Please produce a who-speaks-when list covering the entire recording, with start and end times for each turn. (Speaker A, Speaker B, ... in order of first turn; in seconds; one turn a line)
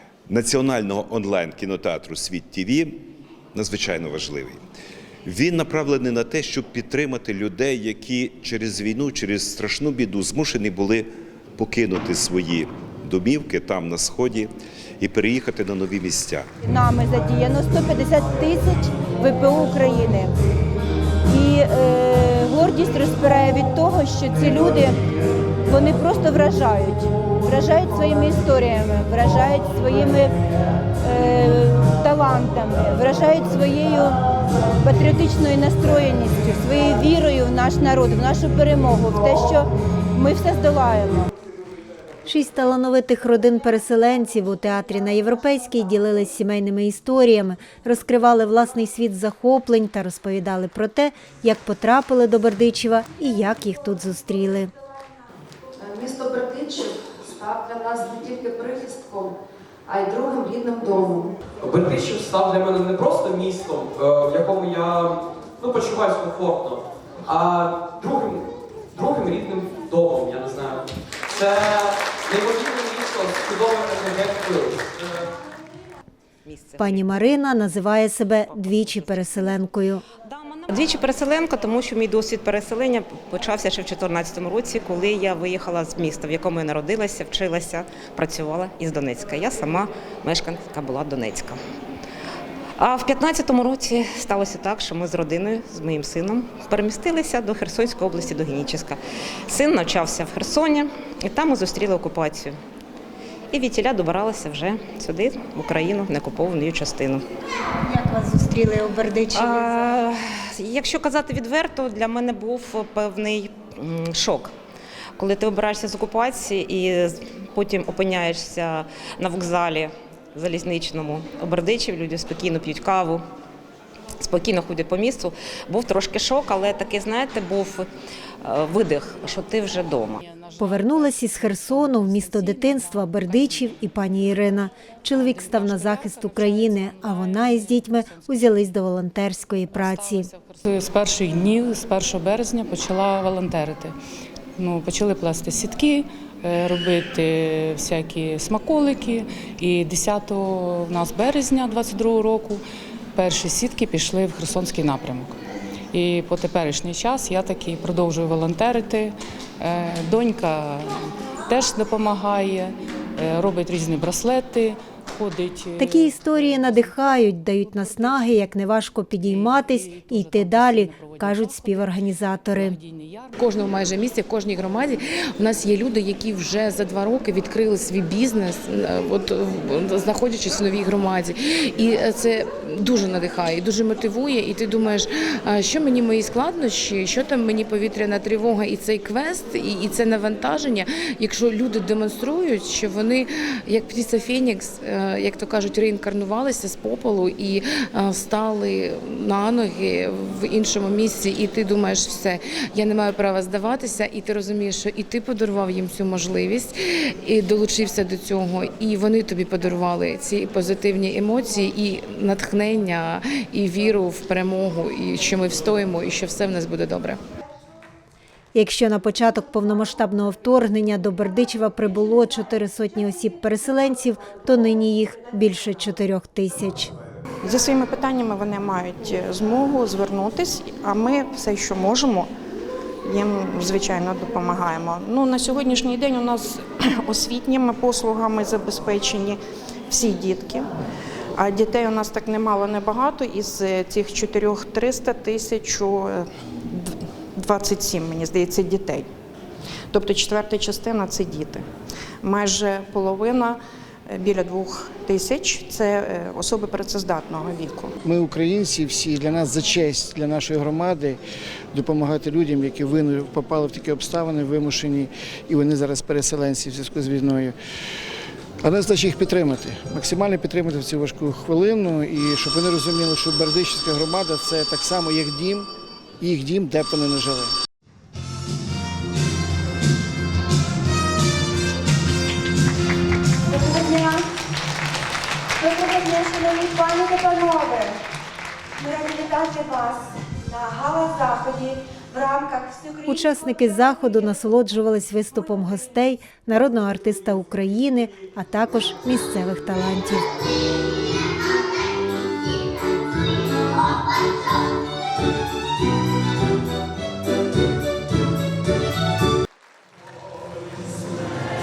Speaker A: 0.3-3.0
Speaker A: 3.5-4.6
Speaker A: 5.2-16.5
Speaker B: 16.6-20.4
Speaker B: 21.3-25.0
Speaker B: 25.6-30.4
Speaker B: 31.0-34.2
Speaker B: 34.8-41.3
Speaker C: 42.2-54.7
Speaker D: 55.9-59.3
Speaker D: 59.9-61.3
Speaker E: 61.6-75.2
Speaker F: 76.5-77.5
Speaker C: 76.8-80.0
Speaker F: 78.5-79.6
Speaker F: 80.2-91.6
Speaker F: 92.8-102.5
Speaker F: 103.5-107.2
Speaker C: 107.8-109.9
Speaker F: 109.3-114.5
Speaker F: 115.2-123.2
Speaker F: 124.2-127.8
Speaker F: 128.4-130.2
Speaker G: 129.7-133.8
Speaker C: 130.6-140.3
Speaker G: 135.0-138.6
Speaker G: 139.7-143.9
Speaker G: 144.6-152.6
Speaker G: 153.1-155.4
Speaker G: 155.9-168.5
Speaker C: 165.8-172.8
Speaker G: 169.2-172.0
Speaker G: 172.5-173.3
Speaker H: 173.4-217.2
Speaker C: 218.5-226.9
Speaker I: 227.4-232.3
Speaker I: 233.0-240.7
Speaker I: 241.3-249.1
Speaker I: 249.9-251.7
Speaker I: 252.2-257.9
Speaker J: 258.0-261.2
Speaker J: 261.7-267.5
Speaker J: 268.6-275.7
Speaker J: 276.2-277.5
Speaker B: 283.4-284.3
Speaker B: 285.6-288.0
Speaker B: 288.8-294.2
Speaker C: 293.1-300.2